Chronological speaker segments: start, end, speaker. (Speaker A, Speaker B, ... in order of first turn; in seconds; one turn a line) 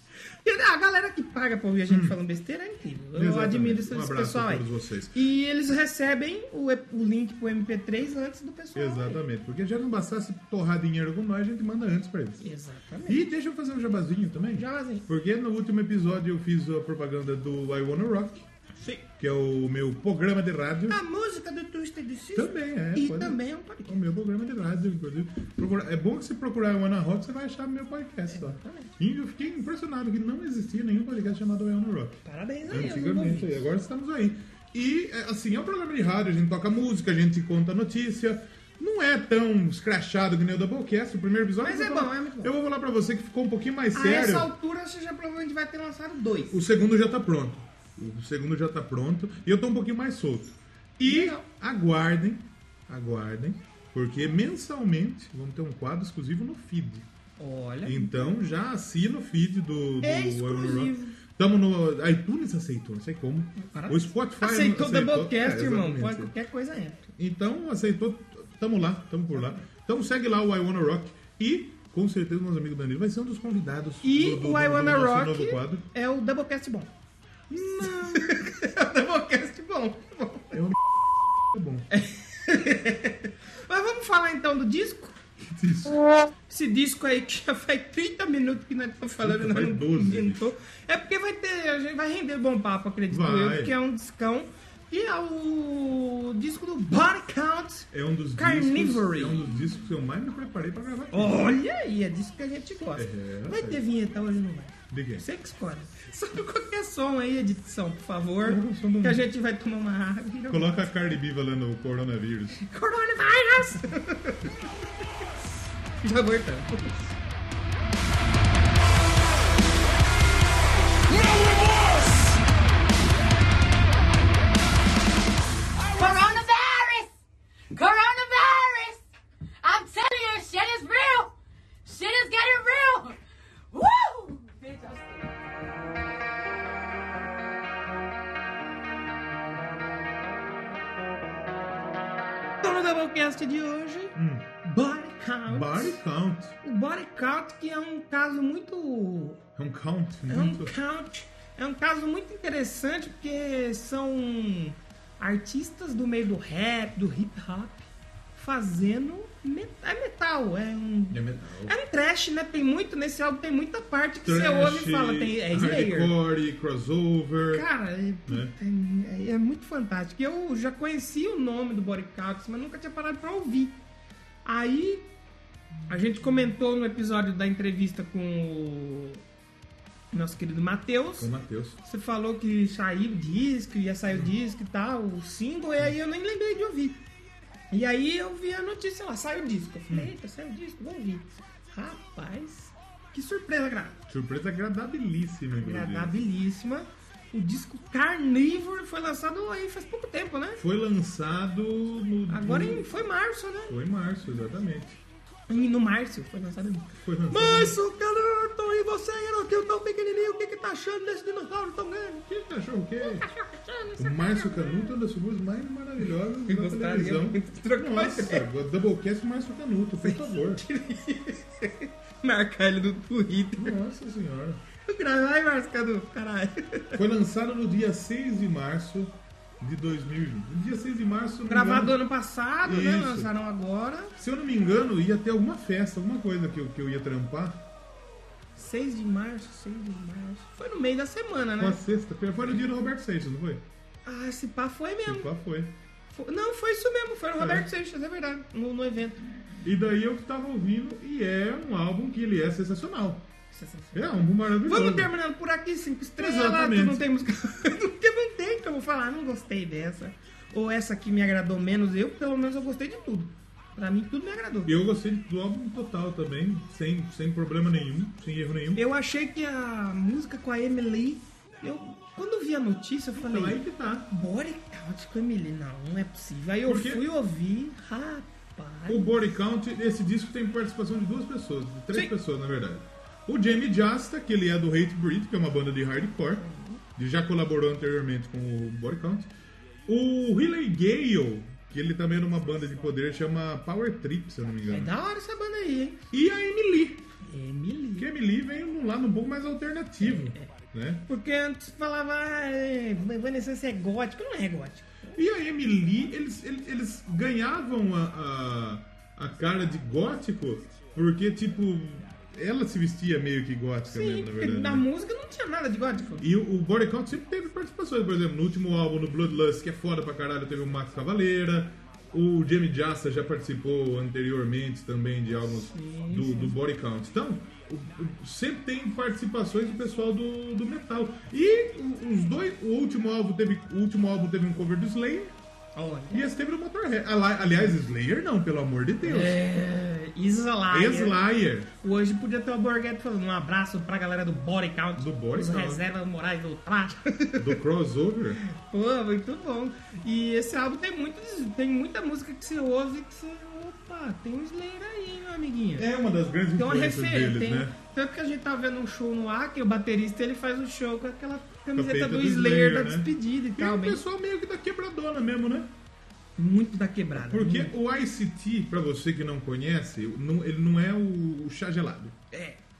Speaker A: 0.4-9.2
Speaker B: 1.9-2.1
Speaker B: 3.1-5.1
Speaker B: 8.7-12.4
Speaker A: 12.4-13.2
Speaker B: 13.1-18.4
Speaker A: 14.6-15.1
Speaker A: 18.8-19.0
Speaker B: 19.2-21.0
Speaker A: 20.9-24.0
Speaker B: 22.3-44.5
Speaker A: 28.3-28.9
Speaker A: 32.2-33.6
Speaker A: 41.6-42.5
Speaker A: 43.9-46.5
Speaker B: 46.5-57.1
Speaker A: 51.0-51.5
Speaker A: 57.4-58.3
Speaker B: 57.8-66.3
Speaker A: 60.0-61.2
Speaker A: 63.6-67.1
Speaker B: 67.2-75.8
Speaker A: 74.0-76.9
Speaker B: 77.5-78.5
Speaker A: 77.5-80.6
Speaker B: 80.5-80.8
Speaker B: 81.5-81.9
Speaker A: 81.9-85.2
Speaker B: 85.4-86.0
Speaker A: 86.5-99.6
Speaker B: 89.2-90.5
Speaker B: 93.1-93.7
Speaker B: 97.9-101.5
Speaker A: 101.1-110.8
Speaker B: 102.9-103.8
Speaker B: 104.9-105.2
Speaker B: 108.4-109.2
Speaker B: 110.5-112.6
Speaker A: 112.6-114.8
Speaker A: 116.0-117.1
Speaker C: 125.9-127.1
Speaker A: 126.0-126.4
Speaker C: 127.7-129.0
Speaker C: 129.6-133.2
Speaker C: 133.7-135.9
Speaker A: 142.6-146.0
Speaker B: 144.1-144.5
Speaker B: 145.5-146.6
Speaker A: 146.6-149.4
Speaker B: 149.6-150.7
Speaker A: 150.3-166.2
Speaker B: 161.1-161.7
Speaker B: 164.2-167.7
Speaker A: 167.5-173.8
Speaker B: 168.3-168.5
Speaker A: 174.4-175.1
Speaker A: 175.9-179.2
Speaker A: 180.1-181.3
Speaker B: 181.2-181.8
Speaker A: 181.8-187.0
Speaker A: 187.7-194.0
Speaker B: 194.1-196.2
Speaker A: 195.5-200.6
Speaker B: 200.6-203.0
Speaker A: 202.3-203.7
Speaker B: 203.7-205.0
Speaker A: 205.5-212.3
Speaker B: 207.0-207.8
Speaker B: 212.3-213.2
Speaker A: 213.0-215.0
Speaker B: 214.0-220.6
Speaker A: 216.4-218.5
Speaker A: 220.0-223.8
Speaker B: 223.6-224.6
Speaker A: 224.8-227.0
Speaker B: 226.9-232.0
Speaker A: 231.5-234.1
Speaker B: 232.6-233.3
Speaker B: 234.2-237.7
Speaker A: 238.6-241.8
Speaker B: 241.6-243.6
Speaker A: 244.0-245.3
Speaker B: 245.0-245.7
Speaker A: 246.1-249.3
Speaker B: 247.4-247.7
Speaker B: 249.6-253.3
Speaker A: 253.5-264.8
Speaker B: 253.9-255.1
Speaker B: 256.2-257.0
Speaker B: 264.6-268.8
Speaker A: 268.7-279.1
Speaker B: 273.1-274.1
Speaker B: 276.6-277.0
Speaker B: 278.9-286.4
Speaker A: 286.3-286.8
Speaker B: 286.9-289.3
Speaker B: 289.9-294.9
Speaker A: 294.7-296.0
Speaker B: 296.1-297.1
Speaker A: 297.2-298.1
Speaker B: 298.0-301.1
Speaker A: 300.0-300.5
Speaker A: 301.0-305.2
Speaker B: 305.1-314.9
Speaker A: 313.9-316.2
Speaker B: 316.2-335.4
Speaker A: 325.5-326.6
Speaker A: 335.7-336.3
Speaker B: 336.1-339.4
Speaker A: 339.0-341.2
Speaker B: 340.7-341.7
Speaker A: 341.8-347.6
Speaker B: 344.9-345.8
Speaker B: 347.4-348.4
Speaker A: 348.4-355.9
Speaker B: 355.8-357.7
Speaker A: 356.6-364.0
Speaker B: 361.7-365.7
Speaker A: 366.4-367.7
Speaker B: 367.1-372.2
Speaker A: 372.3-372.6